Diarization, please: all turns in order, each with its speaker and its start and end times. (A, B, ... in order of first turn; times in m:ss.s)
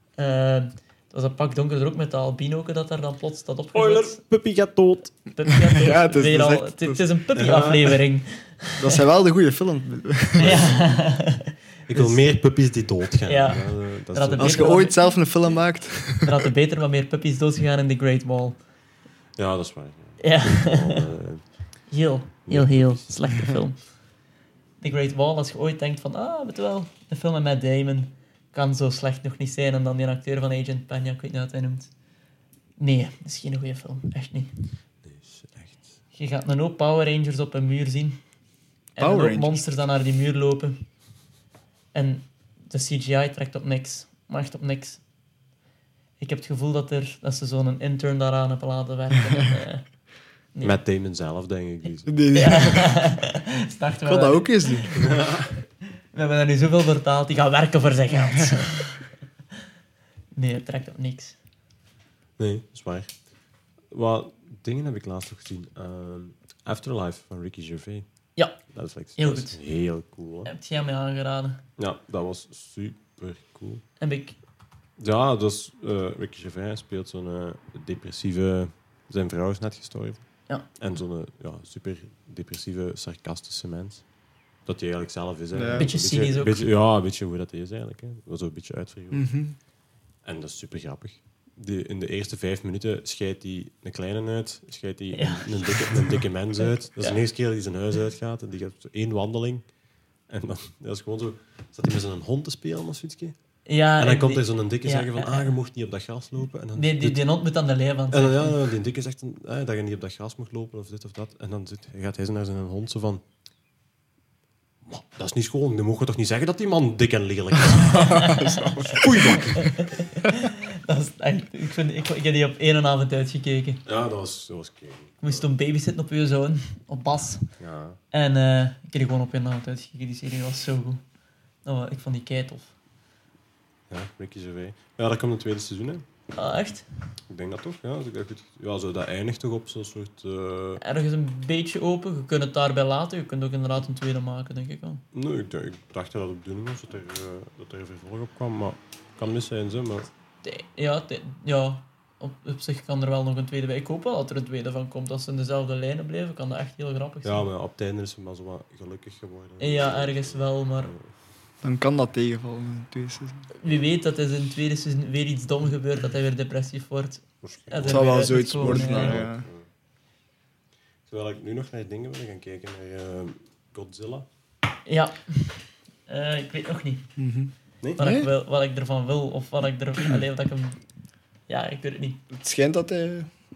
0:00.2-0:04.2 A
0:03.7-0:05.3 B
0:05.3-0:08.8 A
0:05.7-0:07.0 C
0:07.4-0:08.0 B
0:08.8-0:10.6 C
0:10.4-0:12.2 A
0:10.4-0:11.0 B
0:11.9-0:14.8 B
0:13.3-0:15.1 A
0:14.4-0:16.4 C
0:16.2-0:18.6 A
0:19.4-0:21.6 B
0:20.2-0:21.1 A
0:21.9-0:23.9 A
0:22.5-0:23.5 B
0:24.8-0:31.9 A
0:32.8-0:34.7 A
0:35.0-0:35.8 B
0:36.1-0:38.2 A
0:39.0-0:40.9 A
0:39.0-0:39.7 C
0:41.9-0:45.0 A
0:46.2-0:49.9 A
0:50.6-0:52.2 B
0:52.1-0:53.0 C
0:52.3-0:55.3 A
0:54.1-0:55.0 C
0:54.9-0:55.5 B
0:56.1-0:59.0 A
1:00.4-1:01.4 A
1:02.4-1:03.1 B
1:03.9-1:08.1 B
1:08.6-1:10.5 B
1:09.2-1:09.6 A
1:10.5-1:11.6 A
1:11.8-1:13.8 B
1:14.0-1:14.4 A
1:15.0-1:24.1 B
1:24.6-1:29.3 B
1:25.5-1:25.9 C
1:25.8-1:26.6 A
1:29.1-1:29.6 C
1:30.2-1:39.7 B
1:35.1-1:37.2 A
1:40.3-1:43.4 B
1:43.7-1:45.5 A
1:44.0-1:47.2 B
1:46.8-1:48.6 A
1:48.1-1:53.2 B
1:54.8-1:58.3 B
1:57.8-1:59.4 C
1:57.8-2:03.8 A
1:58.9-1:59.8 B
2:03.9-2:05.4 B
2:05.2-2:07.6 A
2:07.6-2:08.0 B
2:08.1-2:11.0 A
2:11.6-2:12.7 A
2:13.9-2:16.0 B
2:16.4-2:16.9 A
2:17.3-2:20.8 B
2:20.8-2:25.0 A
2:25.1-2:30.1 B
2:30.4-2:37.5 A
2:37.2-2:41.1 B
2:39.6-2:40.9 A
2:41.6-2:43.5 C
2:43.6-2:49.2 A
2:47.4-2:49.7 B
2:47.9-2:49.5 C
2:51.1-2:54.3 B
2:54.9-2:57.1 A
2:57.2-2:58.3 C
2:58.0-3:00.8 A
3:01.5-3:02.2 A
3:02.3-3:03.3 C